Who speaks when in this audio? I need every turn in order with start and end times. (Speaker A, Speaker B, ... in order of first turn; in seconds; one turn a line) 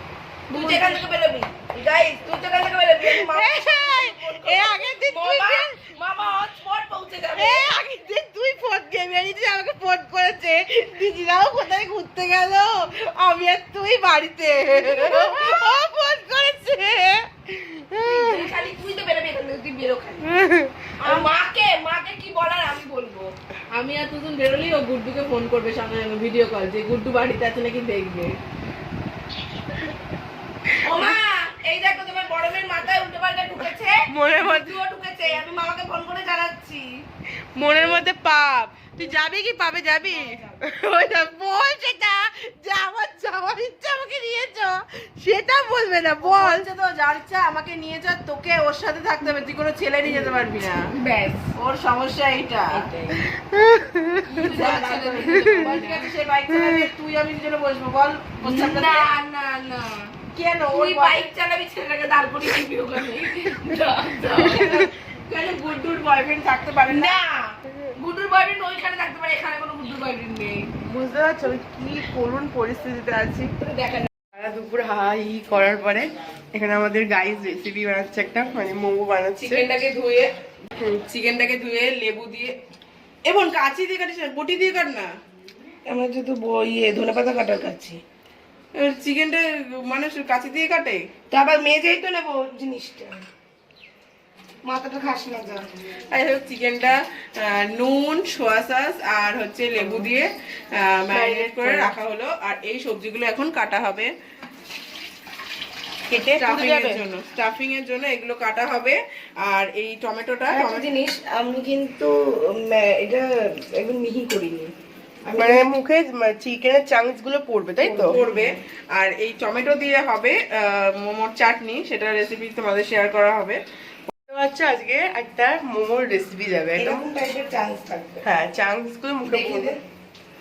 Speaker A: 0.5-1.0
Speaker B: 0.5-7.7
Speaker C: 3.0-5.8
Speaker C: 7.3-18.5
Speaker B: 14.8-15.4
Speaker B: 18.0-20.4
Speaker C: 20.2-21.1
Speaker B: 21.0-23.3
Speaker A: 23.7-28.4
Speaker B: 30.8-37.0
Speaker C: 34.1-34.8
Speaker C: 37.5-46.7
Speaker B: 40.1-40.7
Speaker A: 46.2-50.9
Speaker B: 50.0-51.5
Speaker A: 51.5-52.9
Speaker B: 52.7-53.3
Speaker C: 53.2-54.6
Speaker B: 54.2-56.1
Speaker A: 54.4-59.1
Speaker C: 55.3-55.8
Speaker C: 56.5-56.9
Speaker B: 58.4-64.9
Speaker A: 60.6-61.2
Speaker C: 60.7-61.0
Speaker A: 63.6-67.2
Speaker C: 64.4-64.9
Speaker B: 66.9-70.7
Speaker C: 70.8-73.5
Speaker B: 73.6-74.1
Speaker C: 74.3-79.7
Speaker A: 79.4-82.5
Speaker A: 83.2-85.1
Speaker B: 85.9-88.0
Speaker A: 88.7-91.0
Speaker B: 91.3-93.2
Speaker B: 94.7-95.6
Speaker A: 96.1-104.1
Speaker C: 101.1-101.9
Speaker C: 106.1-107.0
Speaker A: 106.4-110.9
Speaker B: 110.5-114.7
Speaker B: 115.2-115.7
Speaker C: 115.3-118.2
Speaker B: 117.8-118.5
Speaker A: 118.0-123.6
Speaker C: 124.3-127.0
Speaker B: 126.8-128.2
Speaker C: 128.2-129.7
Speaker B: 129.3-129.8